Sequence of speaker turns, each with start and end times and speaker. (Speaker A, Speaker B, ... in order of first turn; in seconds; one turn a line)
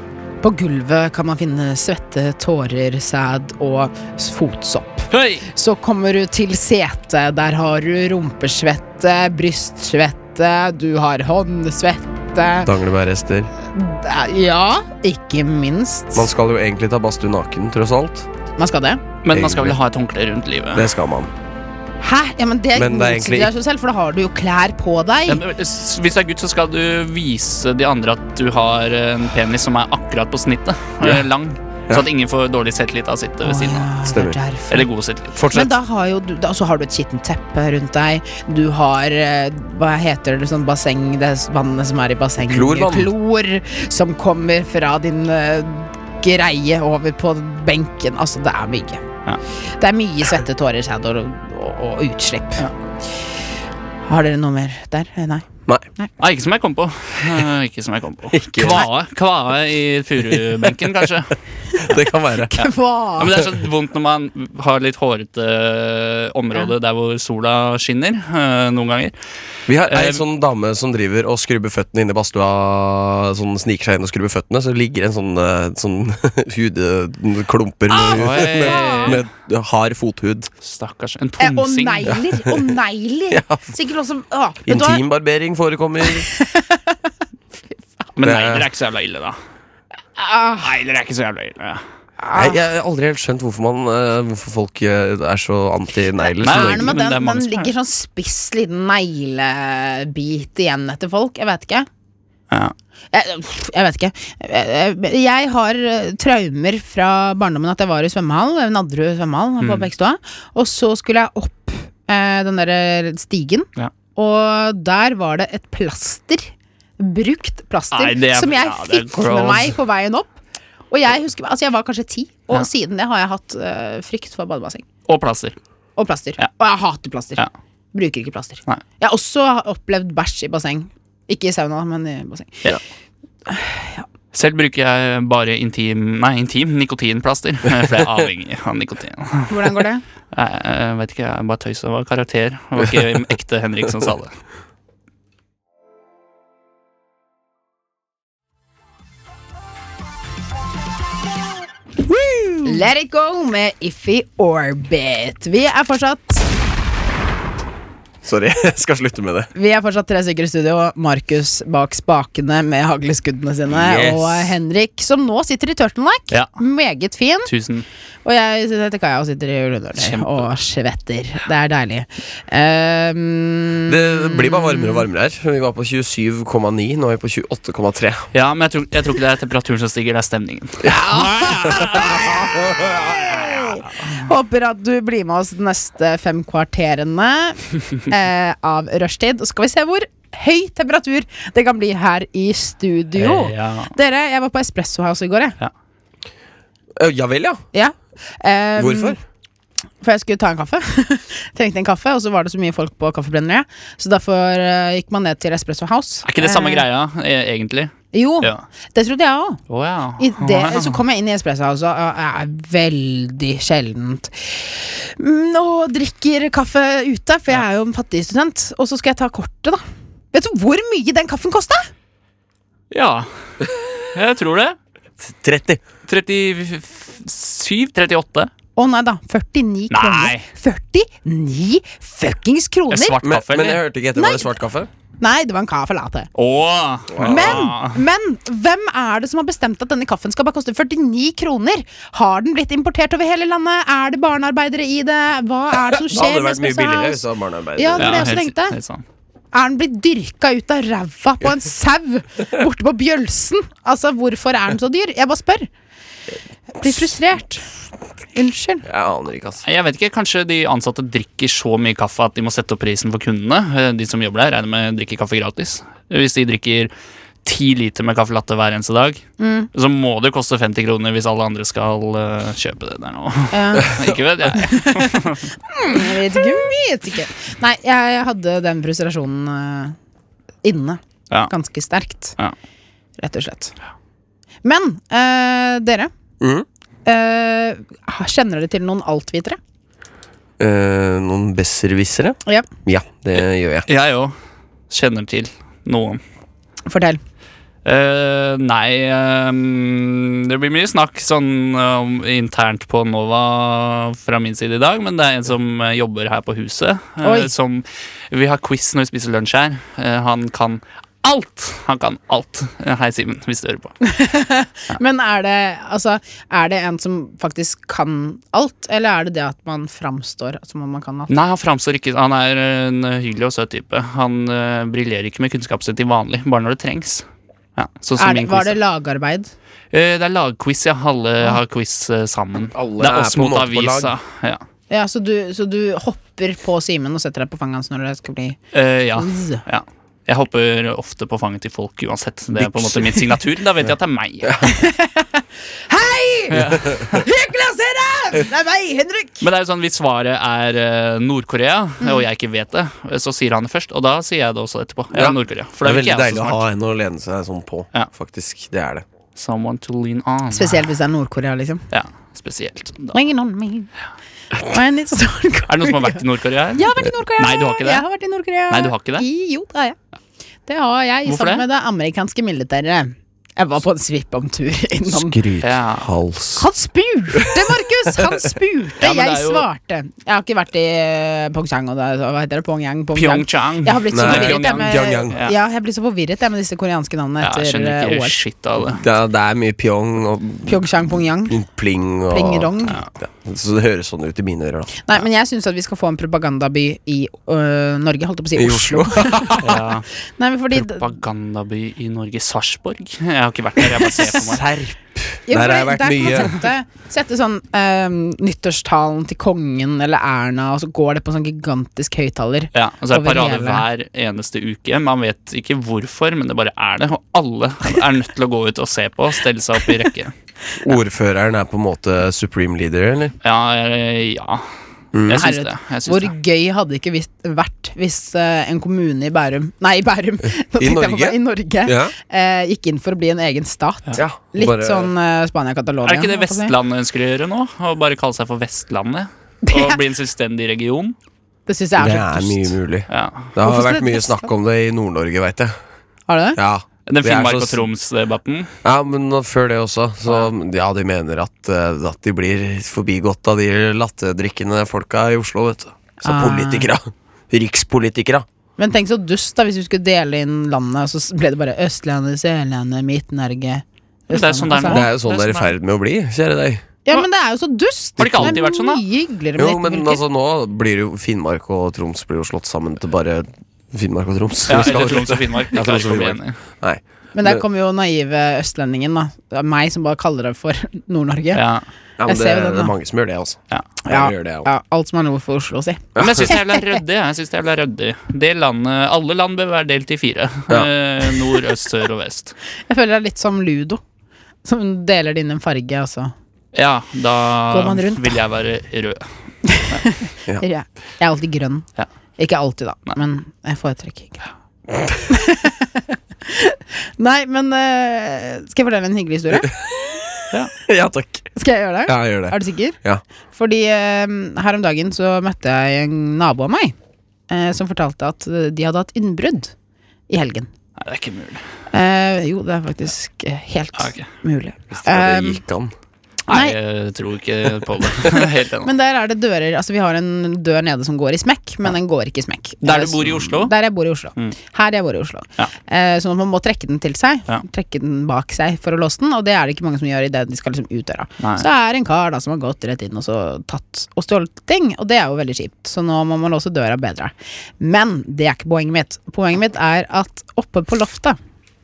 Speaker A: 0.4-12.7
Speaker B: 5.1-5.5
Speaker C: 12.6-13.5
Speaker A: 13.7-16.3
Speaker C: 16.1-18.3
Speaker A: 18.6-19.0
Speaker B: 19.2-20.9
Speaker C: 19.3-19.8
Speaker C: 20.7-21.3
Speaker A: 22.0-25.4
Speaker C: 22.8-23.5
Speaker B: 25.3-33.9
Speaker A: 33.4-34.9
Speaker C: 34.1-34.4
Speaker B: 34.7-35.4
Speaker C: 35.4-35.7
Speaker A: 35.5-49.0
Speaker C: 42.4-43.1
Speaker A: 49.7-52.7
Speaker A: 54.0-55.5
Speaker B: 56.2-61.4
Speaker C: 58.3-58.9
Speaker C: 61.8-62.5
Speaker A: 62.5-63.4
Speaker B: 62.6-69.1
Speaker C: 69.7-80.5
Speaker B: 69.9-70.2
Speaker A: 77.9-79.2
Speaker B: 78.0-79.2
Speaker B: 80.6-82.2
Speaker A: 81.4-85.0
Speaker C: 83.3-83.7
Speaker C: 84.7-86.3
Speaker A: 86.2-87.0
Speaker B: 88.2-89.4
Speaker C: 88.2-88.7
Speaker A: 90.2-90.8
Speaker B: 90.6-91.8
Speaker A: 92.2-92.6
Speaker C: 92.3-97.0
Speaker A: 96.2-101.9
Speaker B: 96.4-97.7
Speaker A: 103.1-120.4
Speaker B: 109.6-109.9
Speaker B: 117.9-119.8
Speaker A: 120.9-124.8
Speaker B: 125.1-125.5
Speaker A: 126.0-132.7
Speaker A: 133.5-134.1
Speaker B: 134.3-139.8
Speaker A: 139.5-140.0
Speaker B: 140.3-144.3
Speaker B: 152.2-152.6
Speaker A: 152.7-156.4
Speaker C: 158.2-159.5
Speaker A: 159.6-167.5
Speaker C: 163.7-164.6
Speaker B: 167.4-167.9
Speaker A: 168.2-175.1
Speaker B: 170.0-170.5
Speaker C: 173.9-178.3
Speaker B: 178.3-182.4
Speaker A: 180.8-195.6
Speaker C: 182.4-183.0
Speaker B: 183.1-184.2
Speaker B: 193.2-193.9
Speaker C: 197.0-197.6
Speaker A: 197.7-199.2
Speaker C: 198.8-199.2
Speaker A: 200.0-206.8
Speaker B: 206.2-208.6
Speaker A: 208.1-209.6
Speaker B: 209.7-211.0
Speaker A: 210.2-219.8
Speaker A: 220.3-221.9
Speaker B: 222.9-224.8
Speaker C: 225.2-225.8
Speaker B: 226.1-228.5
Speaker A: 228.8-233.2
Speaker B: 229.9-230.5
Speaker B: 232.9-233.8
Speaker C: 233.2-234.9
Speaker A: 234.2-234.5
Speaker A: 235.2-236.3
Speaker B: 236.3-238.0
Speaker C: 237.1-237.7
Speaker A: 237.2-247.2
Speaker C: 246.1-248.3
Speaker A: 247.8-248.8
Speaker B: 248.0-249.0
Speaker A: 249.5-255.7
Speaker A: 256.8-257.6
Speaker A: 258.4-258.9
Speaker C: 258.9-259.6
Speaker B: 259.6-266.9
Speaker B: 267.4-269.2
Speaker A: 269.4-269.7
Speaker B: 269.7-275.5
Speaker A: 273.5-274.0
Speaker A: 274.5-280.0
Speaker A: 280.6-282.4
Speaker A: 283.2-283.7
Speaker A: 284.6-286.1
Speaker C: 286.4-286.7
Speaker A: 287.1-289.6
Speaker C: 290.6-293.9
Speaker B: 293.9-294.3
Speaker B: 294.9-296.2
Speaker A: 296.9-297.2
Speaker B: 297.9-313.9
Speaker A: 307.2-307.5
Speaker A: 314.0-321.3
Speaker B: 321.3-327.2
Speaker B: 327.8-328.8
Speaker A: 328.2-329.5
Speaker B: 329.9-334.6
Speaker C: 332.8-334.1
Speaker A: 334.9-338.6
Speaker B: 338.7-344.6
Speaker A: 339.2-339.6
Speaker C: 342.6-343.2
Speaker A: 344.6-349.4
Speaker B: 346.5-347.2
Speaker B: 349.4-356.6
Speaker C: 355.1-359.1
Speaker B: 359.4-360.9
Speaker A: 360.5-361.8
Speaker B: 361.9-363.2
Speaker A: 363.1-363.9
Speaker A: 364.6-366.2
Speaker B: 365.7-368.0
Speaker A: 366.8-370.0
Speaker B: 368.7-369.2
Speaker A: 370.7-375.4
Speaker B: 371.3-371.6
Speaker C: 375.1-376.7
Speaker B: 375.6-376.1
Speaker A: 376.6-388.4
Speaker C: 377.3-378.5
Speaker B: 379.0-379.6
Speaker B: 383.1-385.6
Speaker C: 384.1-385.4
Speaker B: 387.4-389.0
Speaker C: 389.0-390.8
Speaker A: 390.7-391.6
Speaker C: 391.5-394.9
Speaker A: 392.3-393.0
Speaker A: 395.0-399.8
Speaker C: 398.6-399.8
Speaker B: 399.6-400.1
Speaker A: 400.4-401.1
Speaker B: 400.7-404.7
Speaker C: 404.3-406.6
Speaker A: 405.5-413.9
Speaker B: 412.7-420.3
Speaker C: 420.8-423.4
Speaker B: 423.4-424.7
Speaker C: 425.1-425.5
Speaker B: 425.3-426.3
Speaker A: 425.3-436.7
Speaker C: 430.8-432.1
Speaker C: 434.2-435.1
Speaker B: 436.1-441.2
Speaker A: 439.6-440.0
Speaker A: 441.7-442.7
Speaker C: 442.0-445.8
Speaker B: 443.1-443.5
Speaker A: 443.6-444.5
Speaker A: 446.3-446.6
Speaker C: 446.6-447.8
Speaker B: 447.1-448.7
Speaker C: 448.8-458.5
Speaker A: 456.2-456.9
Speaker A: 458.8-465.0
Speaker B: 464.3-465.7
Speaker C: 464.9-466.8
Speaker A: 467.1-470.2
Speaker B: 468.2-469.0
Speaker C: 469.6-477.6
Speaker B: 474.7-476.6
Speaker A: 477.4-481.6
Speaker B: 481.5-481.8
Speaker C: 482.2-484.7
Speaker A: 482.2-482.9
Speaker A: 484.0-486.9
Speaker C: 486.1-486.5
Speaker B: 486.2-492.6
Speaker A: 492.9-494.0
Speaker A: 494.6-496.3
Speaker B: 496.7-499.2
Speaker A: 497.7-498.4
Speaker A: 499.7-501.9
Speaker A: 502.4-504.5
Speaker A: 505.3-509.7
Speaker C: 509.6-511.5
Speaker A: 511.6-513.0
Speaker C: 512.1-513.2
Speaker A: 513.5-517.0
Speaker A: 517.5-519.7
Speaker A: 520.3-520.7
Speaker B: 521.0-521.6
Speaker A: 521.9-525.6
Speaker B: 524.0-524.3
Speaker C: 524.9-525.9
Speaker A: 526.5-526.8
Speaker B: 526.5-528.9
Speaker A: 528.8-551.4
Speaker B: 532.8-533.7
Speaker B: 541.4-541.6